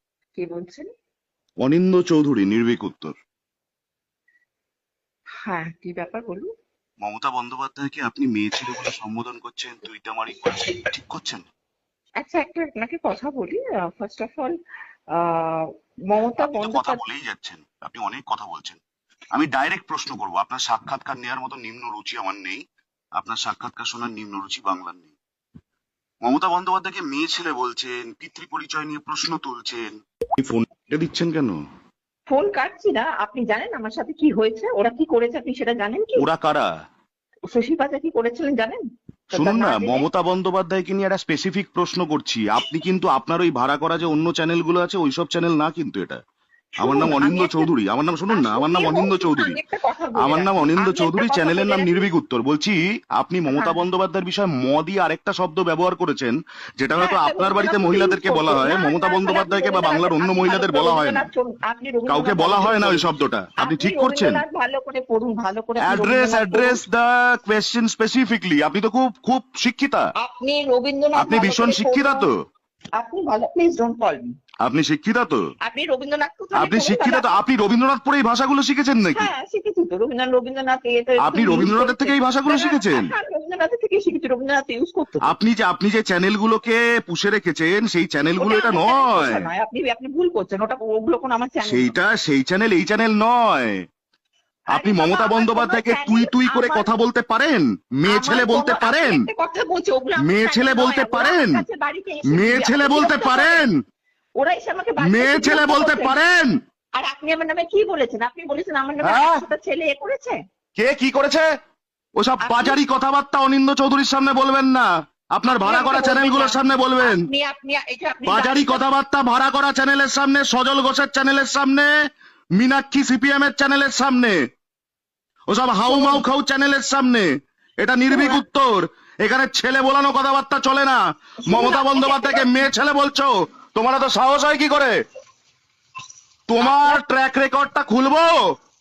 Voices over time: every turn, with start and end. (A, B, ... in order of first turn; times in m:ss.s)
0:00.4-0:00.9 A
0:01.6-0:03.1 B
0:05.4-0:06.5 A
0:07.0-0:11.4 B
0:12.2-0:14.6 A
0:15.1-0:17.0 A
0:16.4-0:18.8 B
0:19.3-0:22.6 B
0:23.2-0:25.1 B
0:26.2-0:31.6 B
0:32.3-0:36.2 A
0:36.2-0:36.7 B
0:37.5-0:40.0 A
0:39.3-0:46.2 B
0:46.8-0:47.7 A
0:46.8-0:49.6 B
0:48.3-0:52.1 A
0:50.2-1:01.3 B
0:53.5-0:53.8 A
0:57.0-1:06.8 A
1:02.1-1:04.4 B
1:05.8-1:10.1 B
1:10.2-1:12.3 A
1:11.2-1:12.3 B
1:13.0-1:14.3 A
1:14.6-1:15.4 B
1:15.6-1:17.4 A
1:16.5-1:19.3 B
1:19.1-1:25.3 A
1:21.2-1:23.1 B
1:25.2-1:29.5 B
1:28.4-1:31.9 A
1:31.6-1:33.8 B
1:34.7-1:36.9 A
1:34.7-1:39.3 B
1:38.1-1:43.6 A
1:40.2-1:41.6 B
1:42.3-1:43.8 B
1:44.4-1:46.2 A
1:45.0-1:46.6 B
1:47.0-1:50.4 A
1:49.0-1:49.4 B
1:50.8-1:51.5 B
1:52.2-1:57.3 B
1:52.4-1:52.8 A
1:55.4-1:58.8 A
1:58.2-2:01.9 B
2:02.6-2:04.4 B
2:05.5-2:07.3 B
2:05.8-2:06.2 A
2:07.8-2:15.0 B
2:08.1-2:08.4 A
2:11.4-2:12.6 A
2:16.5-2:18.4 B
2:16.6-2:17.0 A